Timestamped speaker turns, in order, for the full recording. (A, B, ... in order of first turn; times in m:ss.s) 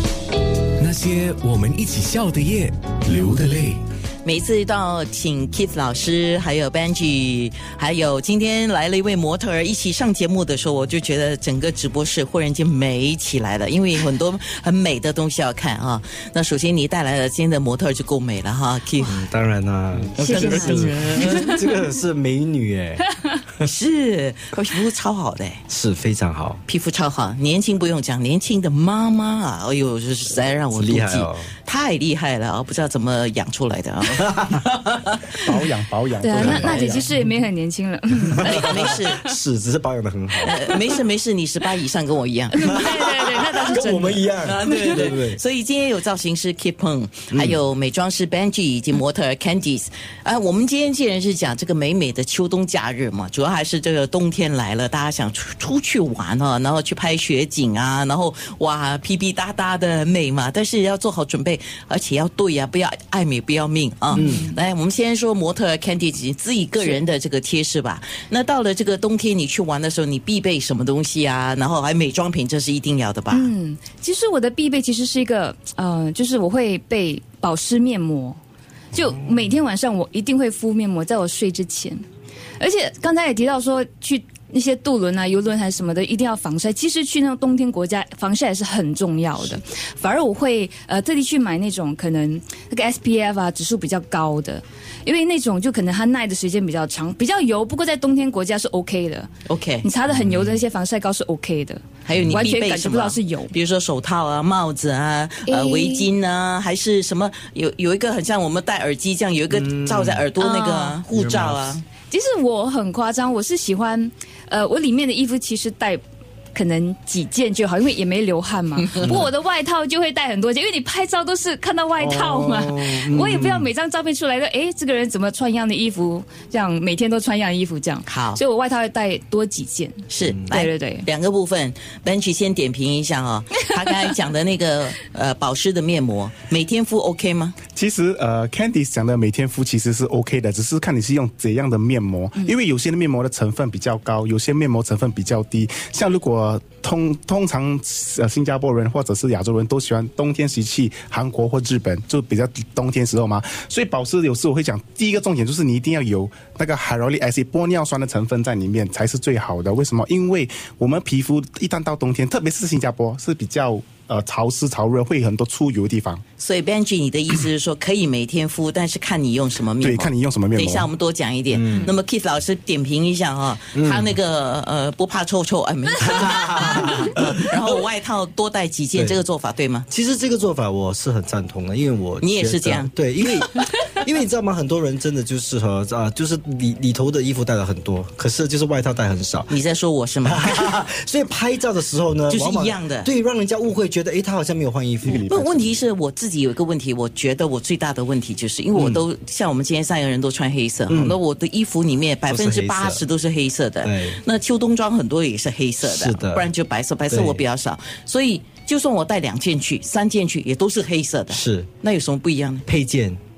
0:00.8-0:03.8 A
0:04.2-0:19.3 B
0:19.1-0:23.0 C
0:20.2-0:21.6 B
0:20.2-0:21.7 D
0:23.6-0:25.6 B
0:25.7-0:26.6 C
0:26.7-0:35.6 B
0:30.7-0:31.5 C
0:35.4-0:37.1 E
0:36.2-0:39.4 D
0:36.4-0:36.8 C
0:38.3-0:40.5 C
0:38.4-0:39.3 B
0:40.4-0:43.1 B
0:42.5-0:45.0 D
0:42.7-0:45.4 C
0:44.4-1:13.5 B
1:04.1-1:04.6 D
1:04.2-1:04.5 C
1:13.3-1:18.4 D
1:18.9-1:22.0 D
1:22.6-1:39.3 D
1:39.5-1:39.9 B
1:39.8-1:43.5 D
1:42.1-1:51.8 B
1:45.5-1:46.1 D
1:49.6-1:50.2 C
1:50.4-1:51.0 D
1:51.1-1:51.7 C
1:52.1-1:56.0 D
1:56.6-2:11.1 D
1:58.9-1:59.2 B
2:02.0-2:03.7 C
2:08.1-2:08.4 B
2:10.1-2:17.6 B
2:17.8-2:46.2 E
2:46.4-2:59.9 B
2:49.8-2:50.9 E
2:51.5-2:51.9 C
2:53.8-2:54.1 C
2:56.1-2:57.3 C
2:59.0-2:59.2 C
2:59.9-3:09.5 C
3:02.2-3:03.7 B
3:09.5-3:10.8 B
3:10.2-3:15.8 C
3:12.3-3:13.1 B
3:15.0-3:32.7 B
3:18.8-3:19.0 C
3:20.9-3:21.2 C
3:22.3-3:23.0 C
3:23.8-3:24.2 C
3:25.8-3:26.5 C
3:27.1-3:27.4 C
3:31.3-3:31.7 C
3:32.7-3:33.2 C